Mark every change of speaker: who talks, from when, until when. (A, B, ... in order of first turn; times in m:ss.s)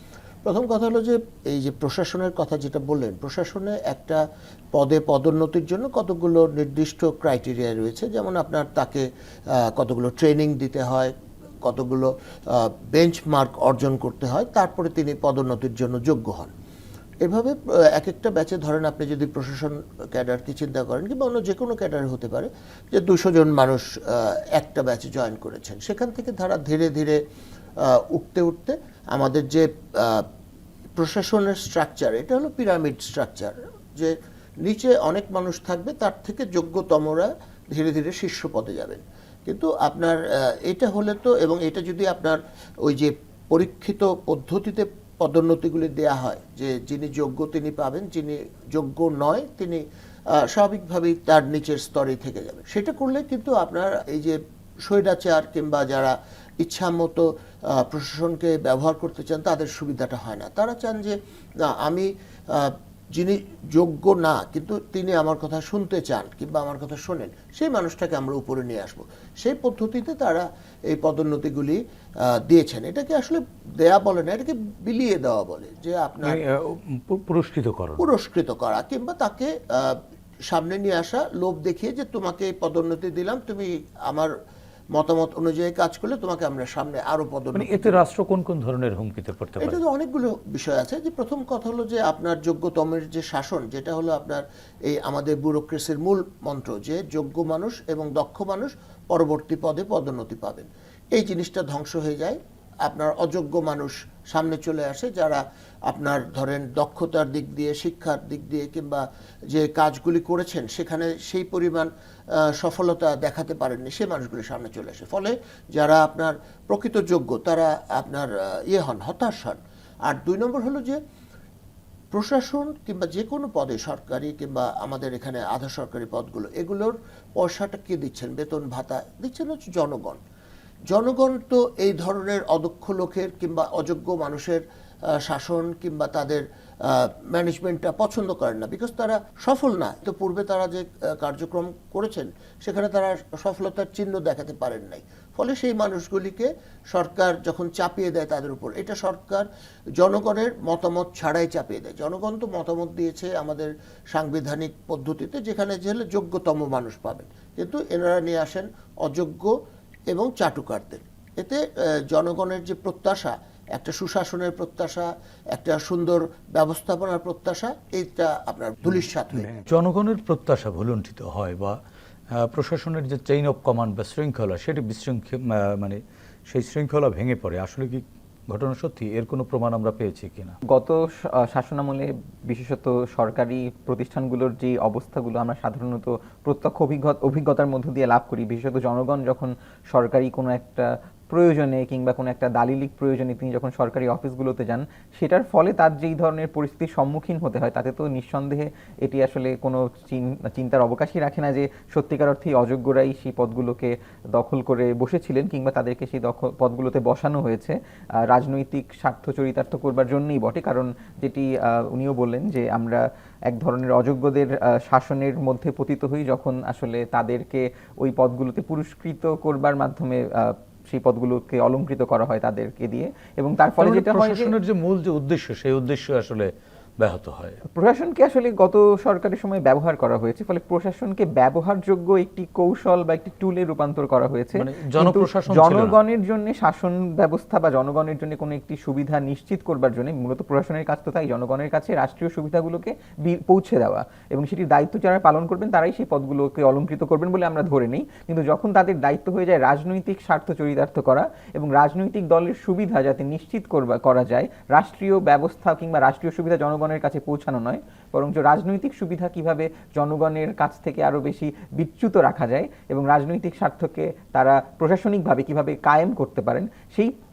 0:00.4-0:04.2 A
0:04.7-0:16.5 A
0:17.2-0:27.2 A
0:27.8-0:30.3 A
0:31.0-1:16.4 A
1:16.2-1:18.0 B
1:18.0-1:24.3 A
1:24.9-1:28.0 A
1:27.5-1:29.8 B
1:29.6-2:01.0 A
2:02.1-2:10.2 A
2:10.9-2:39.5 A
2:40.1-2:49.5 A
2:48.9-2:51.8 B
2:52.3-3:00.6 B
3:00.7-3:44.5 C
3:43.8-3:47.6 B
3:47.7-4:27.1 C
3:54.5-3:56.0 B